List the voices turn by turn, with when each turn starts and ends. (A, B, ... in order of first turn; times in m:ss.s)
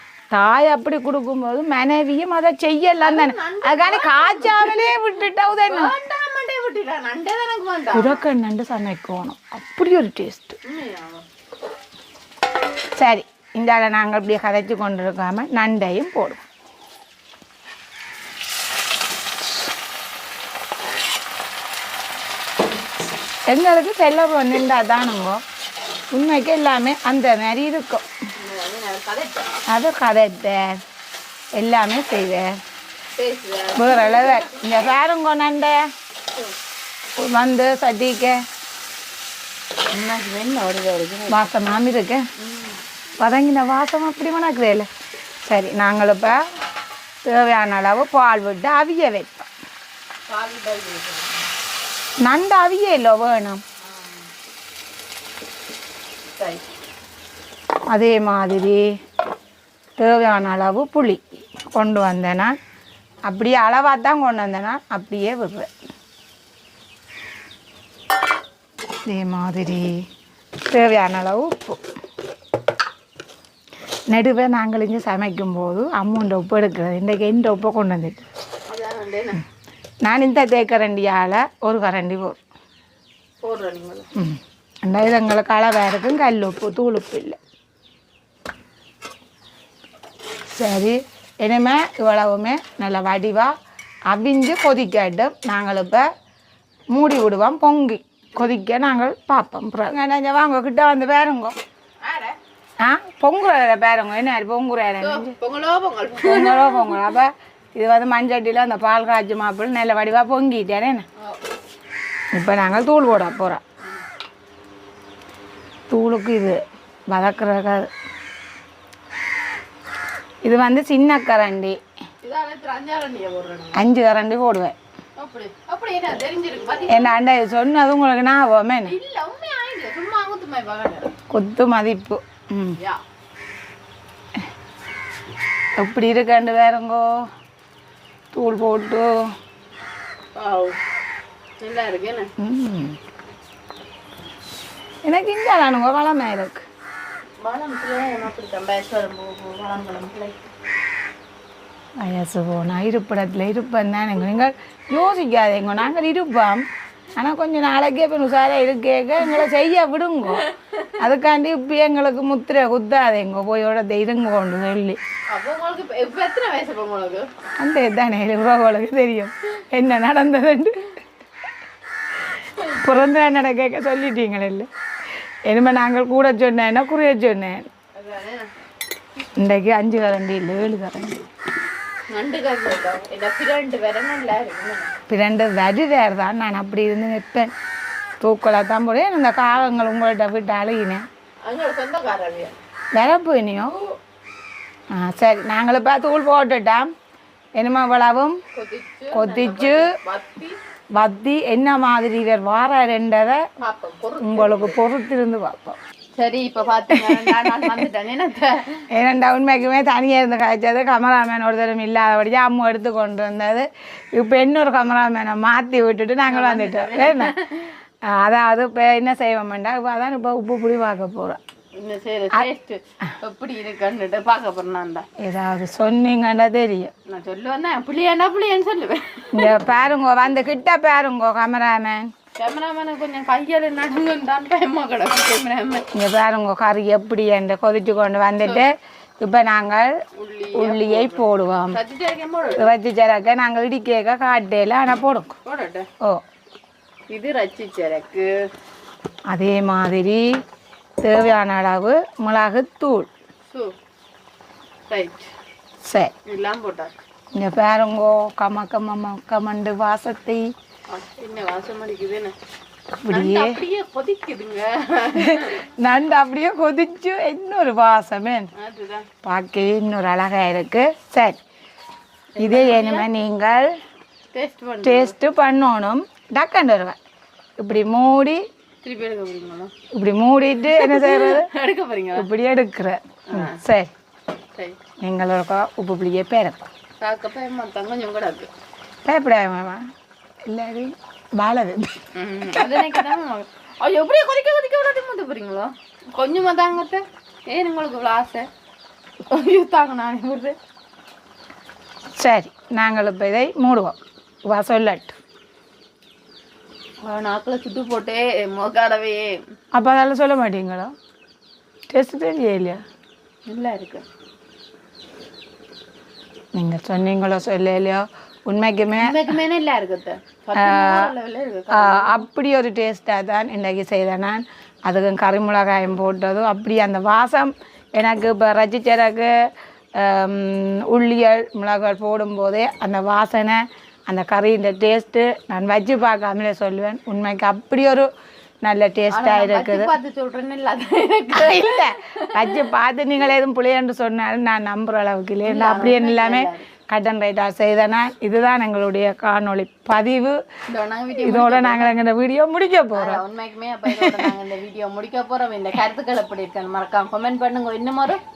0:00.3-0:05.9 A
0:03.0-0:05.0 B
0:05.6-0:08.2 B
0:07.9-0:10.6 A
0:10.6-0:11.2 B
0:13.0-0:16.4 A
0:23.5-0:25.4 A
0:26.1-0:28.1 A
0:28.4-0:29.5 B
0:29.7-0:30.8 A
0:31.6-0:32.6 A
0:33.2-0:34.8 B
0:33.8-0:35.9 A
0:37.2-0:38.4 A
0:39.9-0:41.4 B
0:41.3-0:42.2 A
0:42.4-0:42.8 B
0:43.2-0:44.9 A
0:45.5-0:46.4 A
0:47.2-0:49.5 A
0:50.3-0:51.5 B
0:52.2-0:53.6 A
0:53.8-0:54.3 B
0:56.4-0:56.7 B
0:57.9-0:58.8 A
1:00.0-1:02.6 A
1:03.2-1:05.7 A
1:09.1-1:10.0 A
1:10.7-1:11.8 A
1:14.1-1:18.3 A
1:18.7-1:19.4 B
1:20.0-1:22.4 A
1:23.4-1:24.1 B
1:24.2-1:27.4 A
1:30.6-1:33.5 A
1:34.1-1:36.1 A
1:36.9-1:41.6 A
1:42.0-1:42.4 B
1:42.8-1:45.4 A
1:45.0-1:47.1 B
1:46.2-1:51.1 A
1:52.3-1:53.6 A
1:55.9-1:57.9 A
2:00.4-2:01.8 A
2:02.2-2:03.8 B
2:03.8-2:04.8 A
2:05.2-2:07.2 B
2:06.9-2:08.9 A
2:08.9-2:11.1 B
2:11.3-2:12.8 A
2:15.8-2:17.2 A
2:18.3-2:19.3 A
2:20.4-2:20.8 B
2:21.6-2:22.3 B
2:22.4-2:23.0 A
2:25.1-2:26.6 A
2:27.4-2:30.5 B
2:32.0-2:40.5 A
2:40.4-2:40.9 B
2:41.0-2:45.0 A
2:45.3-2:47.3 B
2:47.6-2:50.9 A
2:52.6-2:54.7 A
2:55.5-2:57.7 A
2:58.0-2:58.5 B
2:59.4-3:01.3 A
3:02.1-3:04.9 B
3:05.1-3:07.5 A
3:08.2-3:11.0 A
3:11.4-3:12.6 B
3:13.0-3:13.8 A
3:14.9-3:16.9 A
3:17.6-3:18.4 A
3:18.5-3:20.6 B
3:19.1-3:19.9 A
3:21.0-3:23.5 A
3:23.6-3:24.8 B
3:24.2-3:25.8 A
3:26.2-3:28.8 B
3:26.9-3:27.8 A
3:28.9-3:37.3 A
3:36.3-3:37.7 B
3:38.0-3:41.4 A
3:41.8-3:45.1 B
3:45.2-3:46.9 A
3:47.1-3:49.6 B
3:49.3-3:52.1 A
3:52.4-3:55.9 B
3:55.9-3:59.9 A
4:00.2-4:02.7 B
4:00.5-4:01.8 A
4:02.5-4:05.4 A
4:05.4-4:05.9 B
4:07.1-4:08.3 B
4:09.3-4:10.3 A
4:11.0-4:13.1 A
4:14.9-4:15.3 B
4:15.8-4:16.1 A
4:16.3-4:16.9 B
4:17.3-4:20.5 A
4:20.9-4:22.4 B
4:23.0-4:23.6 A
4:23.1-4:25.6 B
4:25.2-4:28.5 A
4:28.6-4:29.1 B
4:29.2-4:31.4 A
4:32.4-4:33.1 B
4:32.4-4:33.8 A
4:34.3-4:35.1 B
4:34.8-4:37.0 A
4:37.6-4:38.4 A
4:38.8-4:39.7 B
4:39.9-4:41.5 A
4:40.7-4:42.3 B
4:42.2-4:43.9 A
4:43.3-4:43.6 B
4:45.0-4:46.6 A
4:47.0-4:48.5 B
4:49.1-4:49.9 A
4:50.5-4:52.0 A
4:52.2-4:58.5 B
4:52.6-4:52.9 A
4:59.3-5:00.6 B
5:02.2-5:05.2 A
5:07.0-5:09.4 B
5:09.7-5:10.9 A
5:11.9-5:12.8 A
5:13.5-5:14.0 B
5:16.6-5:19.2 A
5:19.0-5:22.2 B
5:20.6-5:21.1 A
5:21.7-5:29.4 A
5:30.0-5:38.1 A
5:38.6-5:39.9 A
5:39.1-5:42.6 B
5:41.4-5:50.4 A
5:45.4-5:46.7 B
5:50.7-5:52.0 B
5:51.2-5:53.2 A
5:53.0-5:58.2 B
5:53.9-5:54.3 A